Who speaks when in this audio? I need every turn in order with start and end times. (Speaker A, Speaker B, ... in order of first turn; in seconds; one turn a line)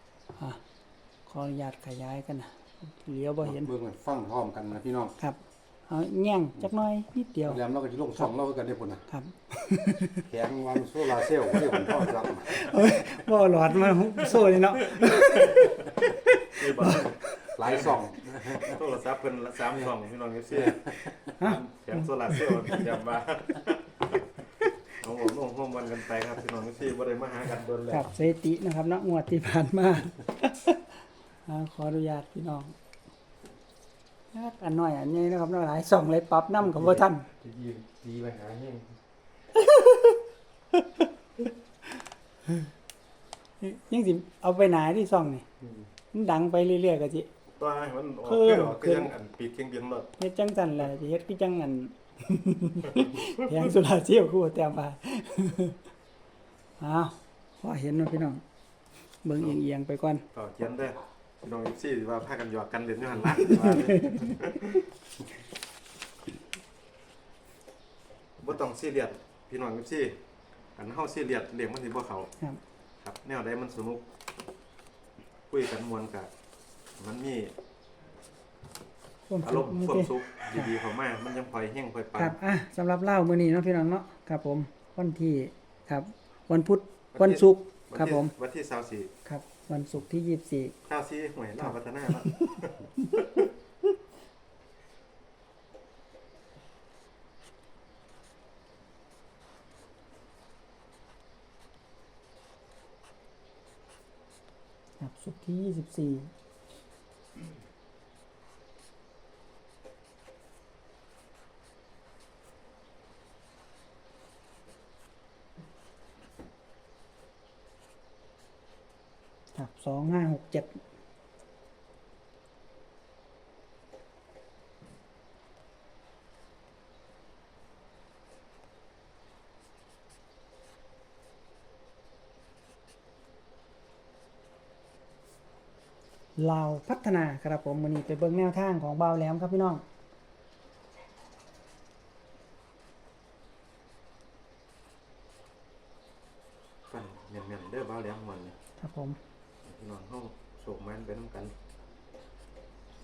Speaker A: 1.3-3.7
Speaker B: 3.4-5.1
Speaker A: 5.2-7.6
Speaker B: 7.4-9.0
Speaker A: 9.1-10.2
Speaker B: 10.3-12.7
Speaker A: 11.5-17.5
Speaker C: 14.8-15.9
Speaker C: 16.5-18.0
Speaker B: 17.5-18.8
Speaker C: 18.5-24.2
Speaker B: 20.6-21.3
Speaker A: 21.4-22.8
Speaker C: 25.0-28.1
Speaker A: 27.9-30.8
Speaker A: 31.4-32.7
Speaker A: 34.3-37.2
Speaker C: 36.8-38.9
Speaker A: 39.5-40.1
Speaker A: 43.6-45.4
Speaker A: 46.1-47.3
Speaker C: 47.6-50.1
Speaker A: 48.2-49.1
Speaker A: 50.2-55.8
Speaker A: 56.8-58.4
Speaker A: 59.2-60.2
Speaker C: 60.3-64.8
Speaker A: 63.4-64.3
Speaker C: 68.4-70.2
Speaker C: 70.8-72.3
Speaker C: 73.0-74.0
Speaker C: 75.5-76.3
Speaker C: 77.0-77.5
Speaker A: 79.3-80.7
Speaker C: 79.4-82.4
Speaker A: 82.2-88.3
Speaker C: 87.1-89.1
Speaker A: 89.2-90.7
Speaker C: 90.8-93.5
Speaker A: 91.6-92.3
Speaker A: 105.0-106.3
Speaker A: 119.5-120.8
Speaker A: 136.4-139.8
Speaker C: 146.9-148.5
Speaker A: 148.8-149.2
Speaker C: 149.6-151.5